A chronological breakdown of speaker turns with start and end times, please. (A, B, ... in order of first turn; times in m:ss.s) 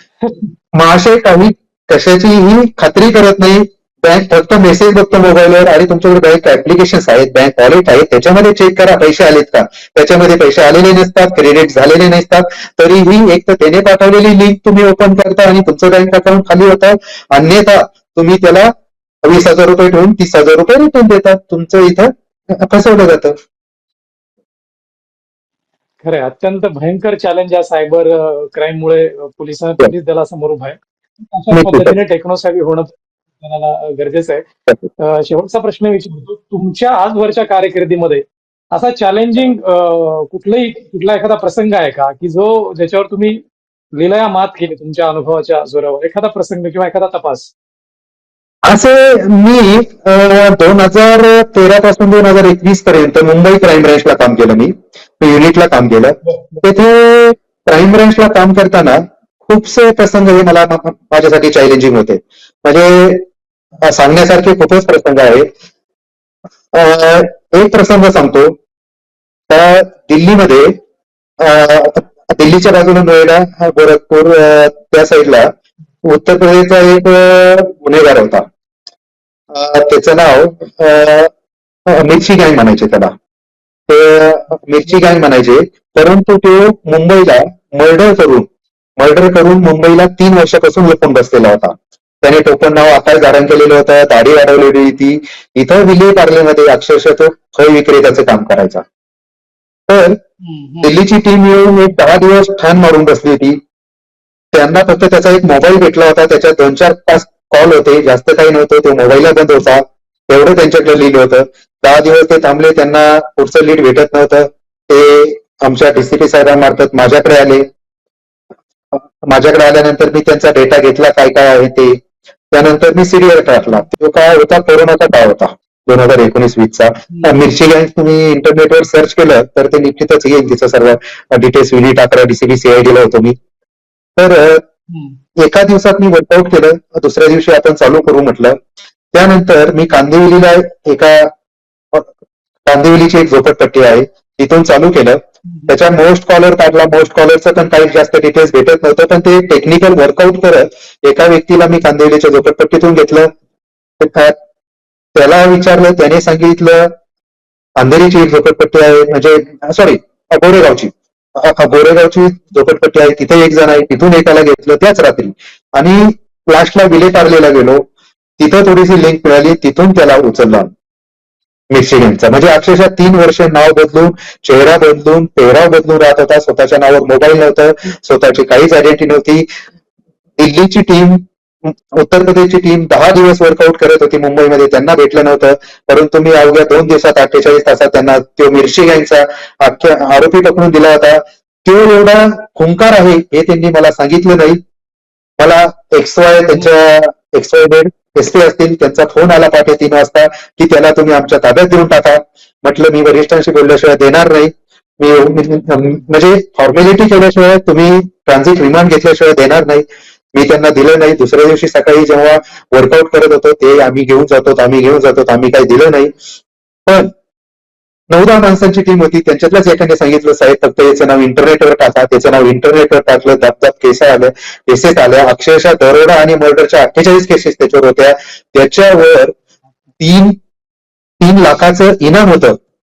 0:00.2-0:00.5 A
0:00.7-0:18.7 B
0:19.2-0:23.4 B
0:26.0-0:34.5 A
0:31.5-0:32.0 B
0:35.0-0:43.4 A
0:44.0-0:47.5 A
0:48.7-1:03.3 B
0:56.2-0:56.6 A
1:03.8-1:05.5 B
1:06.7-1:08.6 B
1:09.5-1:10.8 B
1:11.4-1:15.5 B
1:16.0-1:18.5 B
1:19.5-1:21.3 B
1:21.9-1:23.1 B
1:23.9-1:38.8 B
1:39.9-1:40.2 B
1:40.4-1:40.9 A
1:40.8-1:43.6 B
1:44.5-1:57.6 B
1:58.9-2:02.0 B
2:02.5-2:13.4 B
2:07.1-2:07.4 A
2:14.2-2:14.6 B
2:14.9-2:15.2 A
2:15.4-2:18.6 B
2:19.1-2:21.3 B
2:22.7-2:33.3 B
2:34.0-2:34.4 B
2:35.2-2:36.9 B
2:37.8-2:47.8 B
2:48.4-2:50.7 B
2:51.7-2:59.5 B
3:00.4-3:14.6 B
3:15.4-3:36.1 B
3:36.9-3:37.1 B
3:38.1-3:49.4 B
3:50.0-3:50.4 B
3:51.2-3:52.6 B